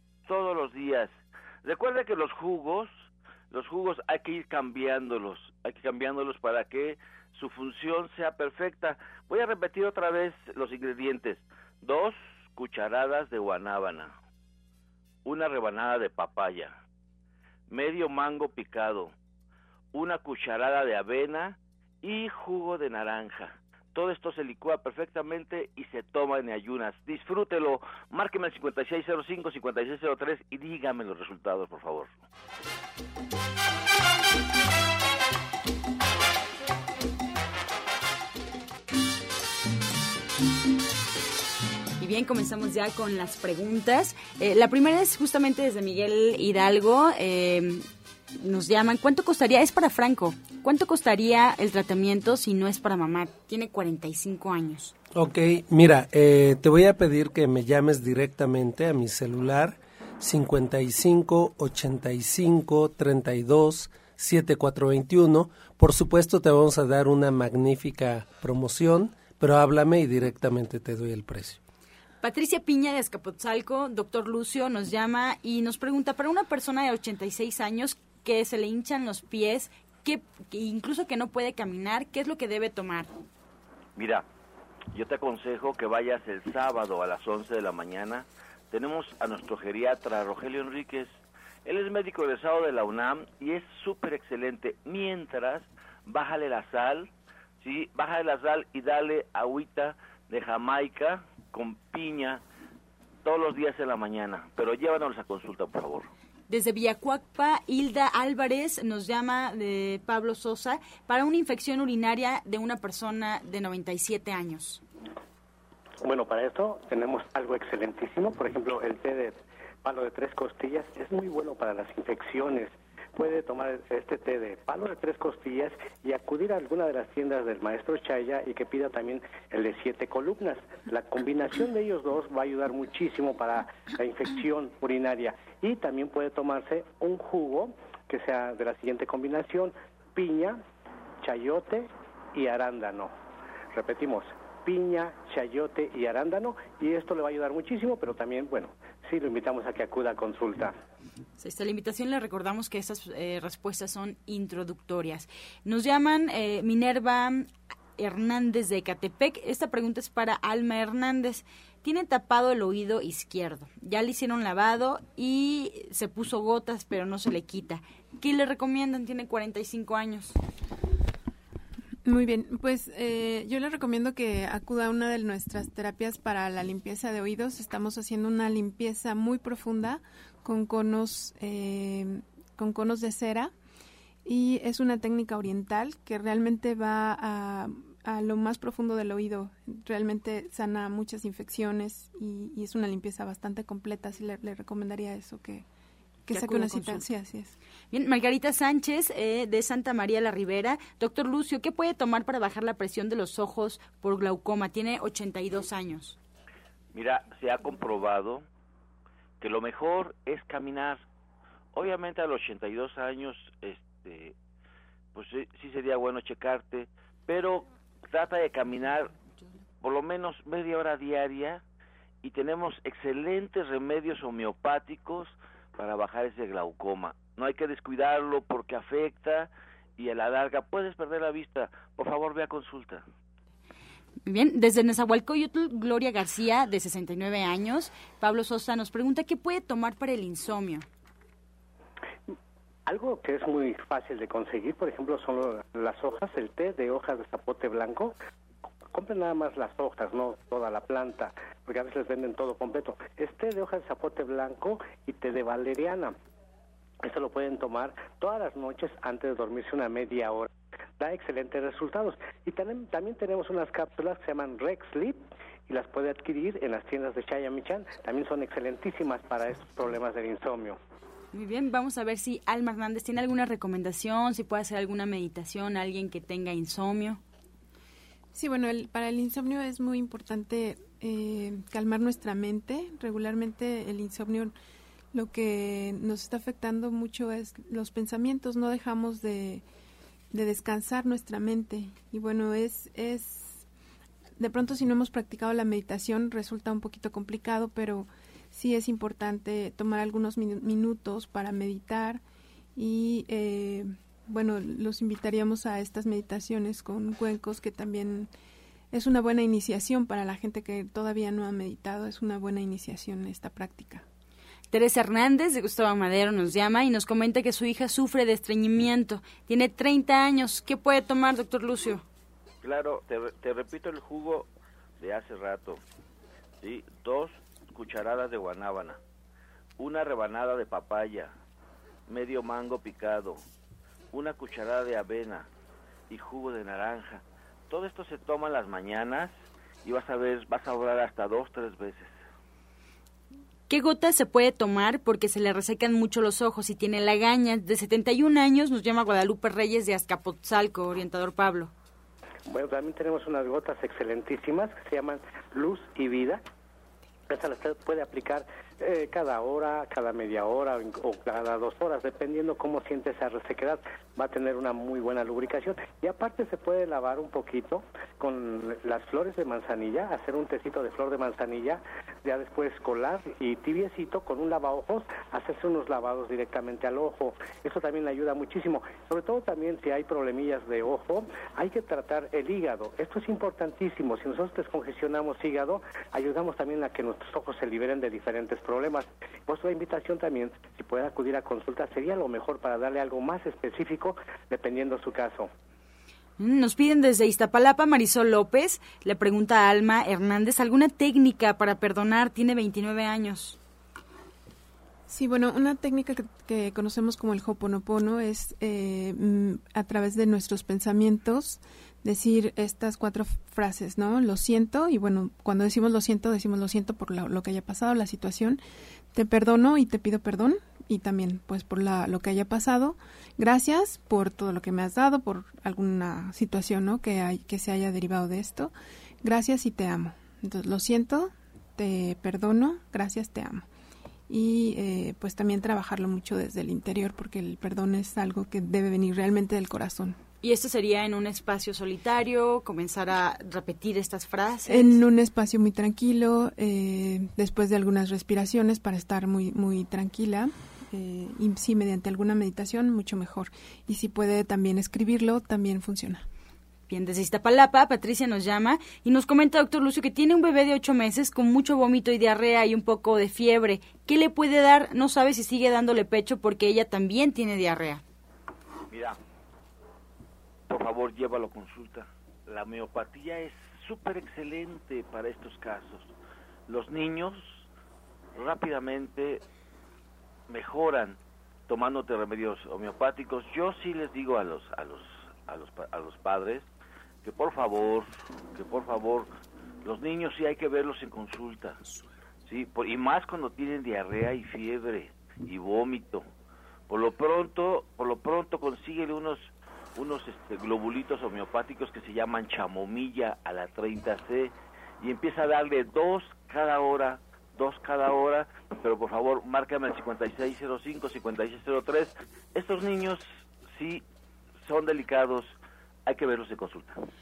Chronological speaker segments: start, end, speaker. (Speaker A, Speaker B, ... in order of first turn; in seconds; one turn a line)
Speaker A: 0.3-14.2
Speaker A: 15.2-16.7
Speaker A: 17.7-19.1
Speaker A: 19.9-32.2
Speaker B: 42.0-47.9
Speaker B: 48.4-54.9
Speaker C: 55.1-71.6
Speaker B: 72.2-83.1
Speaker A: 84.0-84.2
Speaker A: 84.9-102.4
Speaker A: 103.2-106.1
Speaker B: 106.5-114.8
Speaker D: 116.0-140.6
Speaker D: 141.2-143.1
Speaker D: 143.7-150.8
Speaker B: 151.4-170.4
Speaker E: 172.1-183.5
Speaker E: 184.2-195.7
Speaker E: 196.3-197.6
Speaker B: 196.3-197.0
Speaker B: 197.9-206.2
Speaker A: 206.9-208.4
Speaker A: 209.4-211.0
Speaker A: 211.7-214.3
Speaker A: 215.1-219.2
Speaker A: 219.8-221.6
Speaker A: 222.2-233.1
Speaker B: 234.2-240.9
Speaker D: 242.9-248.2
Speaker D: 248.9-256.1
Speaker D: 257.0-270.8
Speaker B: 271.3-277.2
Speaker E: 278.3-284.5
Speaker E: 285.1-289.6
Speaker E: 290.3-293.6
Speaker E: 294.4-302.2
Speaker E: 302.8-308.3
Speaker E: 308.9-314.1
Speaker B: 314.7-322.0
Speaker A: 322.6-325.8
Speaker A: 326.6-329.0
Speaker A: 329.8-331.3
Speaker A: 332.1-333.4
Speaker A: 334.1-335.5
Speaker A: 336.1-342.2
Speaker B: 343.7-351.7
Speaker D: 352.5-356.4
Speaker D: 357.3-395.5
Speaker B: 396.4-403.6
Speaker E: 405.1-418.6
Speaker E: 419.1-433.7
Speaker E: 434.3-440.2
Speaker B: 440.4-445.0
Speaker E: 444.7-456.3
Speaker B: 456.9-468.0
Speaker A: 468.9-469.2
Speaker A: 470.7-476.1
Speaker A: 476.7-477.6
Speaker A: 478.4-479.4
Speaker A: 480.5-486.7
Speaker A: 487.2-489.3
Speaker A: 489.8-491.8
Speaker A: 492.5-496.2
Speaker A: 496.9-514.0
Speaker A: 514.6-517.0